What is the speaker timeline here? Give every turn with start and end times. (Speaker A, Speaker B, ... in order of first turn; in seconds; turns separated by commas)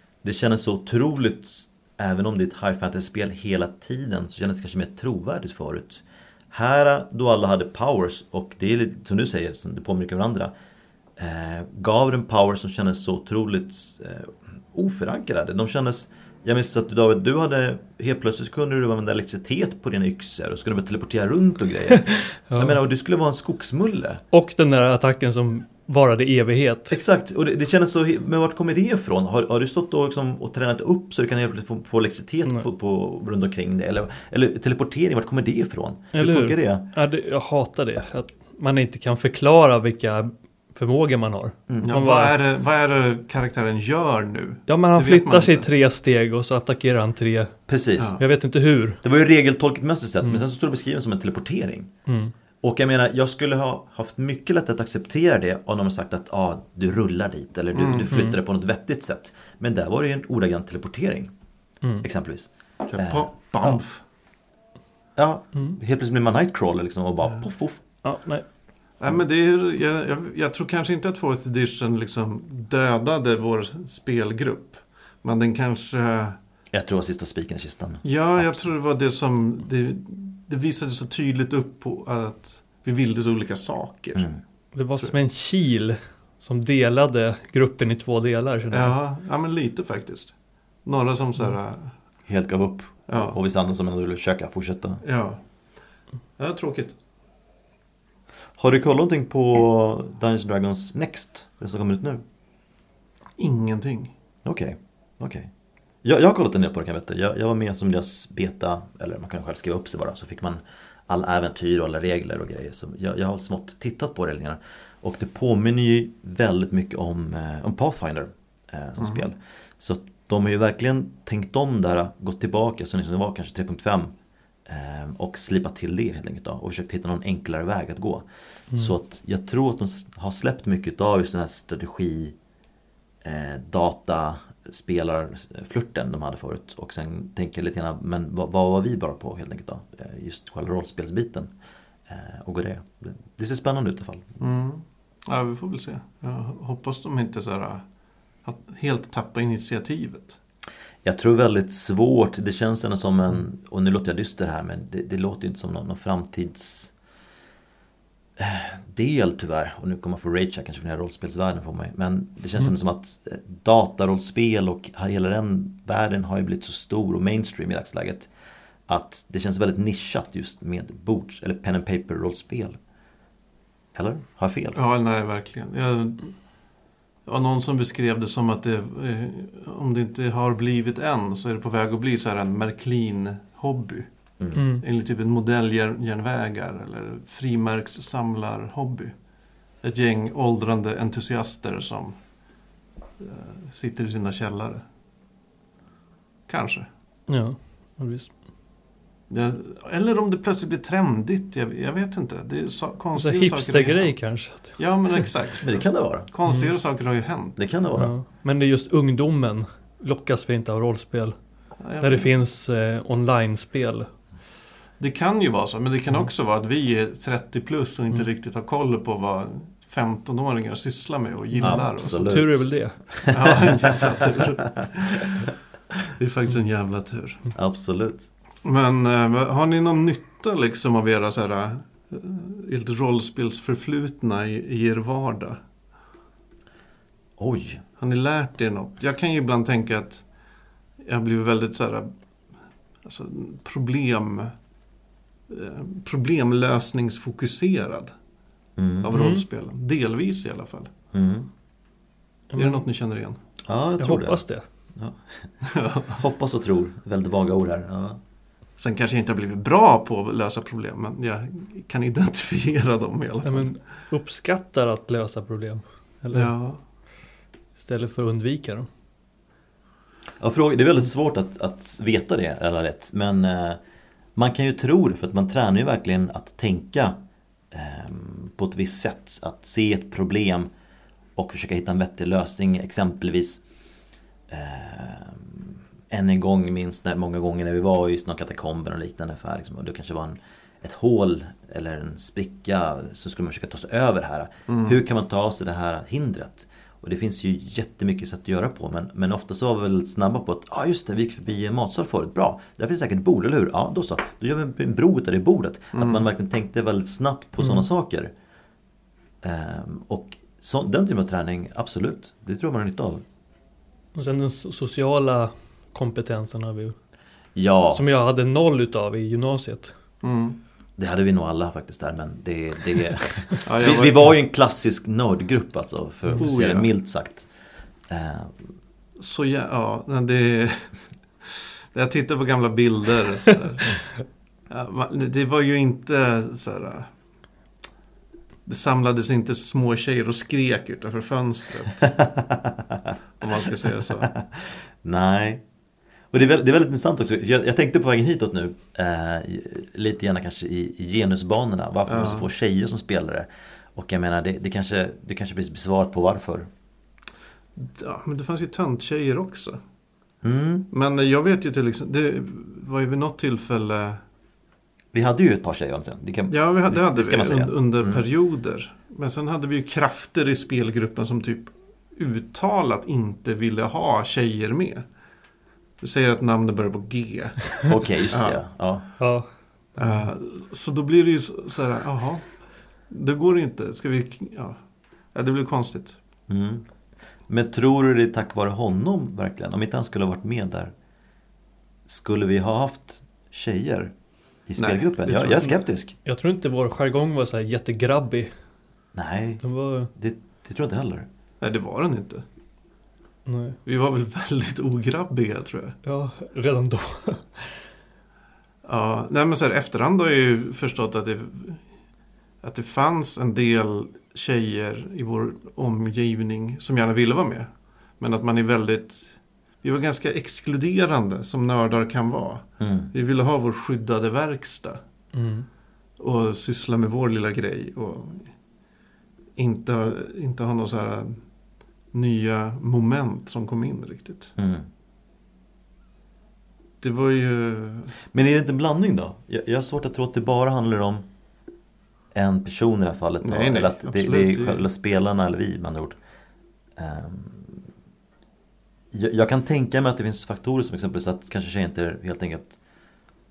Speaker A: 0.2-10.5, Speaker A: 11.2-24.2, Speaker B: 22.1-22.8, Speaker B: 24.3-26.9, Speaker A: 26.9-36.9, Speaker B: 36.1-42.4, Speaker A: 41.7-41.9, Speaker C: 41.8-45.7, Speaker B: 44.7-47.6, Speaker A: 47.7-48.2, Speaker B: 48.2-49.0, Speaker A: 49.0-51.9, Speaker B: 52.0-52.3, Speaker A: 52.6-61.3, Speaker C: 57.7-58.1, Speaker B: 58.1-58.4, Speaker A: 62.0-63.8, Speaker C: 62.9-64.0, Speaker A: 65.2-67.8, Speaker B: 68.0-68.4, Speaker C: 69.0-76.4, Speaker A: 76.7-78.7, Speaker C: 78.0-84.3, Speaker A: 84.1-84.4, Speaker B: 84.7-88.9, Speaker C: 88.7-90.3, Speaker C: 90.8-91.9, Speaker A: 92.3-95.0, Speaker C: 93.1-93.3, Speaker C: 95.0-95.4, Speaker C: 96.4-97.0, Speaker A: 98.6-102.2, Speaker C: 103.4-104.1, Speaker A: 104.4-105.5, Speaker A: 106.0-124.1, Speaker A: 124.7-132.3, Speaker A: 133.2-141.5, Speaker A: 142.1-144.3, Speaker C: 144.4-147.8, Speaker C: 148.4-150.4, Speaker A: 151.0-156.9, Speaker A: 158.4-168.3, Speaker A: 168.9-172.8, Speaker A: 173.9-174.8, Speaker C: 174.7-176.3, Speaker C: 177.2-184.1, Speaker B: 184.5-184.8, Speaker C: 184.8-189.1, Speaker C: 189.8-192.2, Speaker C: 193.2-194.8, Speaker C: 196.5-196.9, Speaker B: 197.3-198.3, Speaker C: 199.3-204.1, Speaker B: 203.2-204.8, Speaker C: 204.8-207.6, Speaker A: 205.6-206.3, Speaker A: 207.6-208.1, Speaker B: 207.9-211.3, Speaker C: 211.8-212.3, Speaker B: 212.0-214.1, Speaker C: 215.0-222.4, Speaker B: 221.5-223.1, Speaker A: 221.6-225.3, Speaker C: 223.3-225.4, Speaker C: 226.1-227.5, Speaker A: 227.5-228.3, Speaker C: 228.6-235.6, Speaker A: 237.4-237.8, Speaker C: 238.0-240.2, Speaker C: 241.0-242.1, Speaker C: 243.0-244.5, Speaker C: 245.5-248.1, Speaker A: 248.8-249.1, Speaker C: 249.0-250.9, Speaker B: 249.1-249.4, Speaker A: 251.1-251.5, Speaker B: 252.5-252.8, Speaker C: 252.5-253.4, Speaker A: 253.6-254.4, Speaker B: 254.0-254.6, Speaker A: 254.9-255.5, Speaker C: 255.6-256.2, Speaker A: 256.0-258.2, Speaker C: 258.8-263.7, Speaker B: 263.4-266.5, Speaker C: 266.3-266.8, Speaker B: 267.8-268.9, Speaker A: 270.4-273.8, Speaker A: 274.4-277.2, Speaker A: 277.7-280.7, Speaker A: 281.4-283.6, Speaker A: 284.5-308.3, Speaker C: 294.7-294.9, Speaker C: 305.9-306.2, Speaker A: 309.4-313.2, Speaker B: 314.1-316.9, Speaker A: 317.6-318.0, Speaker B: 317.9-319.9, Speaker C: 320.2-320.6, Speaker A: 321.0-327.5, Speaker C: 323.6-324.3, Speaker C: 326.4-326.9, Speaker A: 328.1-328.6, Speaker C: 329.2-330.9, Speaker C: 331.4-334.0, Speaker C: 334.7-337.1, Speaker C: 338.6-342.0, Speaker A: 342.0-343.1, Speaker C: 343.4-344.3, Speaker A: 344.4-345.6, Speaker A: 346.3-356.7, Speaker C: 352.1-352.5, Speaker C: 357.8-359.8, Speaker A: 360.4-360.9, Speaker C: 360.9-364.2, Speaker A: 365.1-368.2, Speaker C: 366.5-375.0, Speaker C: 376.0-378.6, Speaker A: 377.8-379.1, Speaker B: 379.2-379.5, Speaker C: 379.9-382.5, Speaker C: 383.1-384.8, Speaker C: 385.3-386.2, Speaker A: 386.5-386.9, Speaker A: 387.5-390.9, Speaker A: 392.1-394.1, Speaker A: 394.7-396.1, Speaker C: 394.8-395.7, Speaker B: 396.2-398.5, Speaker A: 399.1-401.3, Speaker B: 399.6-400.1, Speaker C: 401.6-402.4, Speaker B: 403.4-403.8, Speaker C: 403.9-406.0, Speaker B: 406.0-407.8, Speaker C: 408.8-411.8, Speaker C: 412.6-419.3, Speaker C: 419.8-425.0, Speaker A: 422.8-423.1, Speaker B: 425.3-425.7, Speaker C: 426.2-428.5, Speaker C: 429.6-431.4, Speaker C: 432.1-434.5, Speaker A: 434.6-434.9, Speaker C: 437.0-438.1, Speaker A: 438.3-441.2, Speaker A: 442.3-446.1, Speaker C: 443.4-444.8, Speaker A: 447.0-447.8, Speaker A: 449.1-452.8